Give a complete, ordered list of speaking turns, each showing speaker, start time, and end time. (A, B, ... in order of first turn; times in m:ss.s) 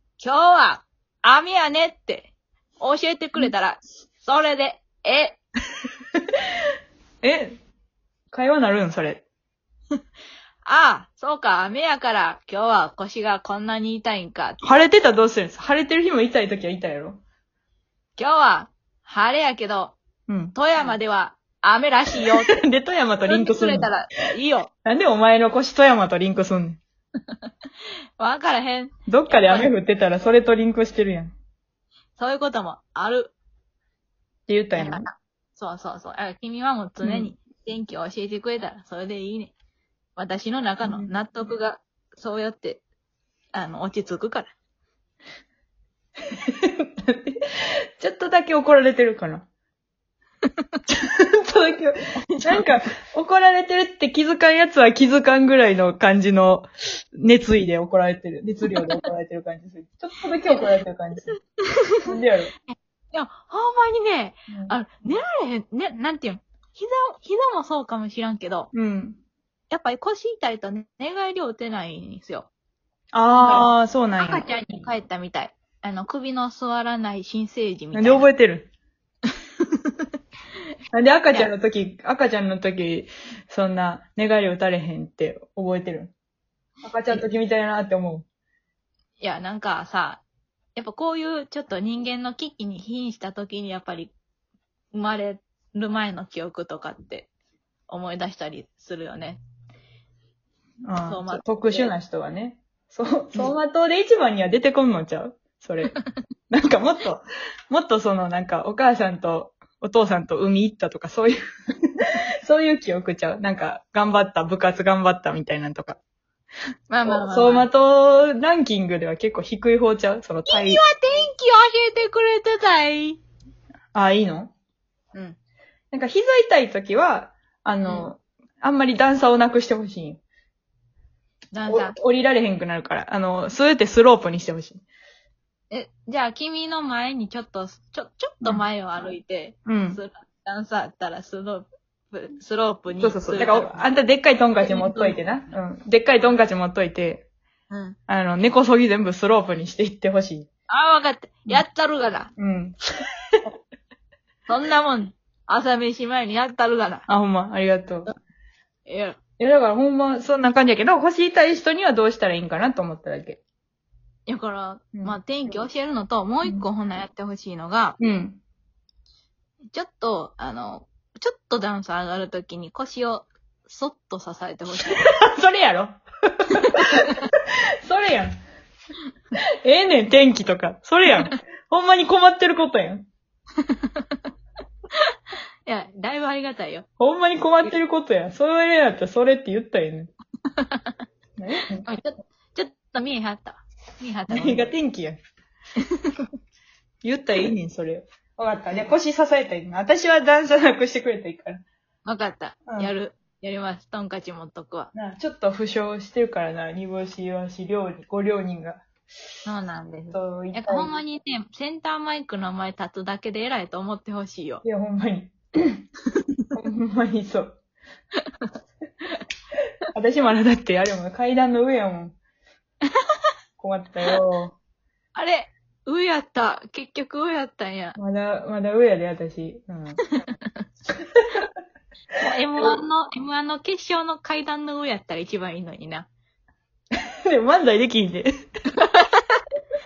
0:00.2-0:05.4 A
0:07.2-0:07.6 B
0:08.3-0:09.2 B
0:10.6-0:14.7 A
0:14.6-0:17.2 B
0:18.2-0:20.0 A
0:20.3-0:20.9 B
0:20.5-0:22.6 A
0:22.3-0:24.0 B
0:23.2-0:24.7 A
0:24.8-0:26.8 B
0:28.2-0:29.7 A
0:29.1-0:31.3 B
0:32.2-0:33.3 A
0:34.5-0:35.0 B
0:34.8-0:39.5 A
0:37.0-0:37.3 B
0:40.2-0:42.8 A
0:40.8-0:41.1 B
0:43.5-0:44.5 A
0:46.4-0:47.4 B
0:48.0-0:49.4 B
0:50.9-1:01.3 B
0:52.3-0:52.6 A
1:02.0-1:02.5 B
1:02.7-1:08.7 A
1:04.5-1:04.7 B
1:08.7-1:09.2 B
1:09.7-1:12.5 A
1:13.1-1:14.5 B
1:13.4-1:18.3 A
1:17.9-1:18.7 B
1:20.9-1:26.1 B
1:26.8-1:28.2 B
1:29.2-1:30.2 A
1:30.7-1:34.1 A
1:34.9-1:37.3 A
1:37.9-1:39.4 A
1:40.8-1:45.9 B
1:41.0-1:41.9 A
1:46.5-1:51.4 B
1:52.4-1:56.0 B
1:56.9-1:57.7 A
1:57.0-2:00.8 B
2:00.5-2:03.2 A
2:03.9-2:04.5 B
2:05.9-2:10.2 B
2:11.5-2:12.0 A
2:11.7-2:14.8 B
2:15.7-2:23.9 A
2:19.6-2:20.0 B
2:23.0-2:27.3 B
2:24.6-2:25.2 A
2:27.7-2:28.0 A
2:28.1-2:30.5 B
2:30.7-2:32.3 A
2:32.4-2:32.8 B
2:34.5-2:37.0 A
2:37.1-2:38.1 B
2:38.8-2:39.2 A
2:39.4-2:43.4 B
2:44.3-2:48.0 A
2:44.9-2:45.2 B
2:48.0-2:48.4 B
2:49.7-2:55.0 A
2:54.9-2:57.2 B
2:57.8-2:58.4 B
2:59.6-3:03.1 B
3:03.6-3:04.2 A
3:05.6-3:06.8 A
3:07.0-3:10.1 B
3:10.5-3:11.0 A
3:11.4-3:11.9 B
3:11.8-3:14.7 A
3:14.3-3:15.2 B
3:17.0-3:21.6 B
3:22.0-3:24.9 A
3:22.7-3:22.9 B
3:24.9-3:28.8 B
3:29.4-3:34.6 A
3:30.1-3:30.9 B
3:34.6-3:35.8 B
3:36.5-3:37.6 B
3:39.9-3:42.2 B
3:43.6-3:44.5 B
3:45.1-3:48.0 A
3:48.0-3:50.0 B
3:51.2-3:51.4 B
3:52.2-3:56.1 A
3:57.3-3:58.3 B
3:58.8-3:59.4 A